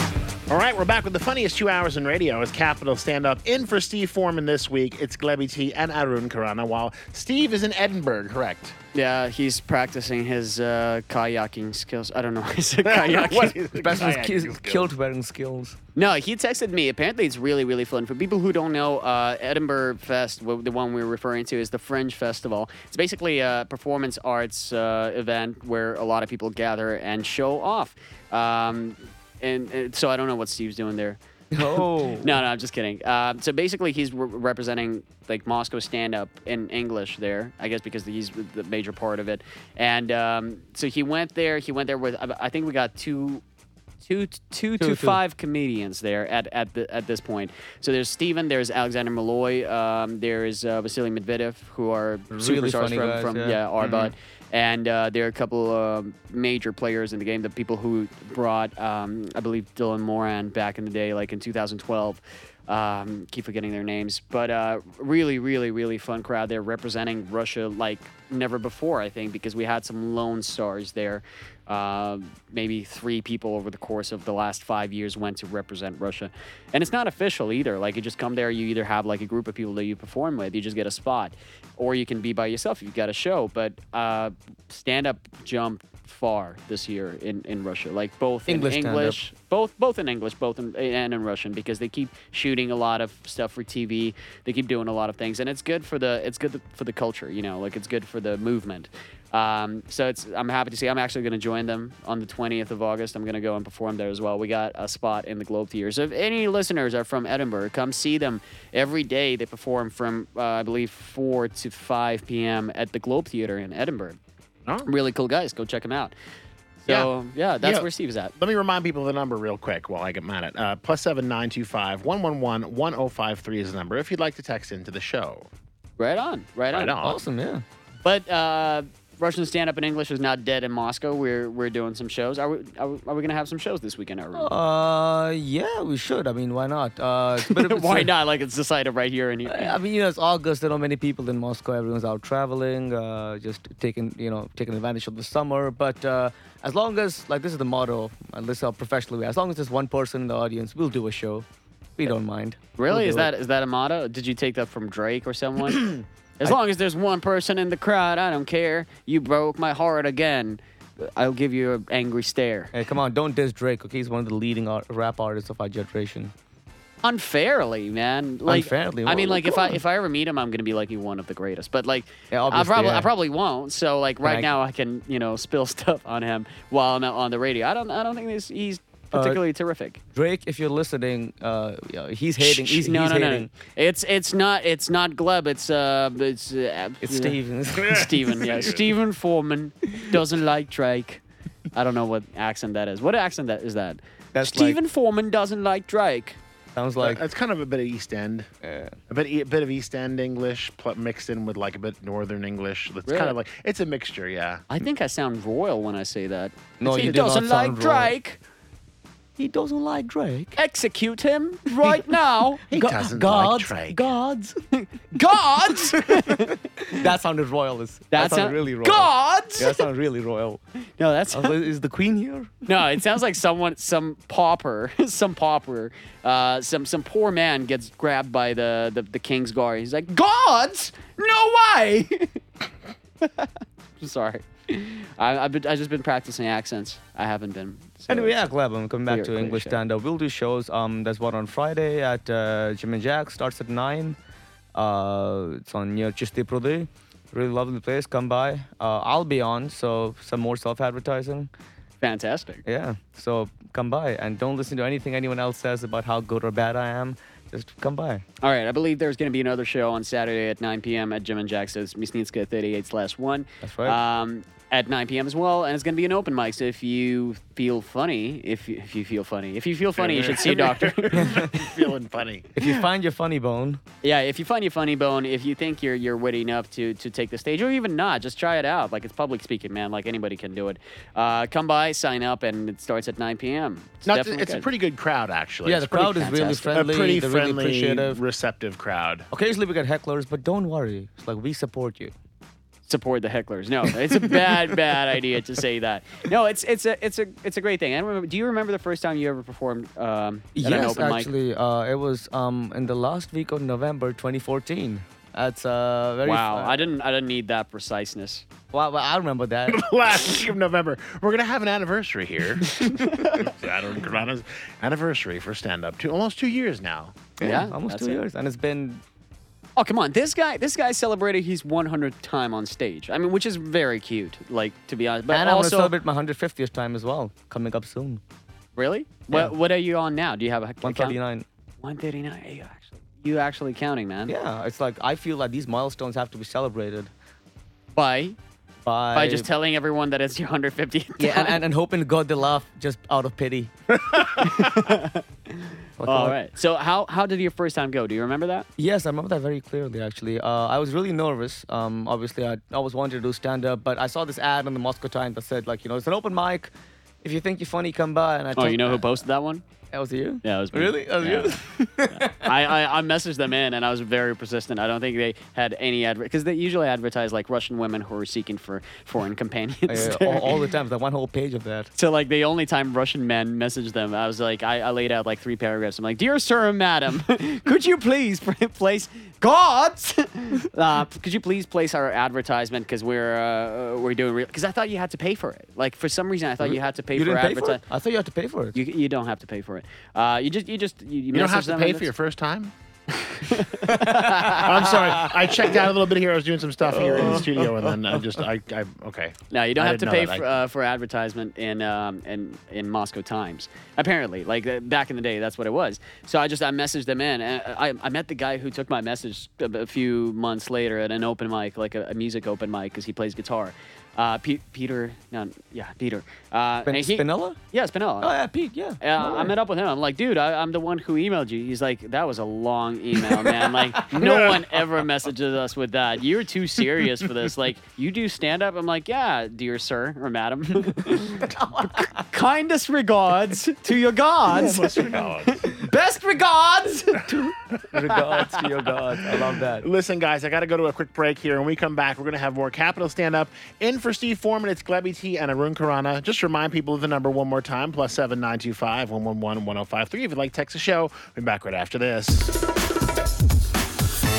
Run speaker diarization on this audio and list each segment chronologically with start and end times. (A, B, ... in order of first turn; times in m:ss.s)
0:00.5-0:08.7 A
0:08.9-0:13.6 B
0:12.8-0:14.9 A
0:13.8-0:15.8 C
0:15.9-0:43.4 B
0:31.5-0:32.4 C
0:44.0-1:54.2 B
0:44.8-0:45.2 C
0:52.3-0:54.1 C
1:28.5-1:29.2 C
1:54.8-1:56.1 B
1:56.8-1:58.3 B
1:57.6-2:05.5 A
2:06.0-2:07.0 B
2:06.7-2:07.2 A
2:07.0-2:07.6 C
2:08.0-2:14.5 B
2:14.3-2:18.1 C
2:17.4-2:19.8 B
2:19.4-2:31.4 C
2:32.0-2:33.3 C
2:32.8-2:42.7 B
2:42.7-2:46.3 C
2:47.0-3:00.0 B
2:48.4-2:49.8 C
2:52.3-2:53.1 C
2:54.2-2:54.5 C
2:59.1-2:59.4 C
3:00.1-3:03.5 C
3:02.4-3:11.2 B
3:07.0-3:08.3 C
3:07.8-3:08.8 A
3:11.7-3:16.4 B
3:14.3-3:14.8 C
3:16.7-3:17.2 C
3:17.0-3:18.5 A
3:18.6-3:19.0 C
3:19.1-3:24.6 A
3:23.1-3:23.3 B
3:24.7-3:28.4 B
3:26.8-3:28.1 C
3:29.4-3:30.6 C
3:30.5-3:32.6 B
3:31.7-3:32.1 C
3:32.7-3:34.0 A
3:32.7-3:34.6 C
3:34.7-3:37.1 B
3:35.6-3:40.6 C
3:38.1-3:39.8 B
3:41.0-3:41.6 B
3:41.3-3:43.0 C
3:42.6-3:52.4 B
3:53.2-3:58.5 B
3:58.1-4:04.2 C
3:59.1-3:59.8 B
4:04.7-4:11.5 C
4:12.0-4:12.6 B
4:12.6-4:18.2 C
4:18.4-4:31.8 B
4:23.6-4:24.0 C
4:30.0-4:32.5 A
4:31.1-4:31.5 C
4:32.5-4:33.8 C
4:34.0-4:44.7 B
4:44.0-4:46.0 A
4:45.6-4:48.2 C
4:45.9-4:46.8 B
4:46.7-4:49.3 A
4:49.3-4:52.1 C
4:52.9-5:01.3 B
5:00.5-5:06.9 C
5:06.2-5:08.4 B
5:08.7-5:09.8 C
5:09.7-5:17.3 A
5:12.7-5:13.5 B
5:17.4-5:19.0 C
5:17.4-5:18.2 B
5:19.8-5:25.9 B
5:25.3-5:28.2 C
5:28.7-5:31.2 B
5:30.8-5:31.4 C
5:31.8-5:34.3 B
5:34.3-5:37.1 C
5:37.9-5:38.4 B
5:38.8-5:39.5 C
5:39.1-5:41.6 B
5:41.2-5:43.7 C
5:44.3-5:48.7 B
5:46.0-5:46.4 C
5:48.8-5:56.7 C
5:57.2-5:59.2 C
5:58.5-5:59.6 B
5:59.9-6:02.6 C
6:00.4-6:10.7 B
6:09.9-6:11.9 C
6:11.9-6:27.8 B
6:26.6-6:28.8 C
6:28.7-6:32.1 B
6:31.3-6:32.7 A
6:33.1-6:35.3 B
6:33.8-6:34.5 C
6:34.6-6:40.4 A
6:36.8-6:38.4 C
6:39.5-6:58.3 B
6:56.8-6:57.6 C
6:58.2-6:59.5 C
6:59.0-7:17.4 B
7:03.2-7:04.6 C
7:11.5-7:12.1 C
7:14.5-7:15.6 A
7:17.2-7:19.9 C
7:19.8-7:32.5 A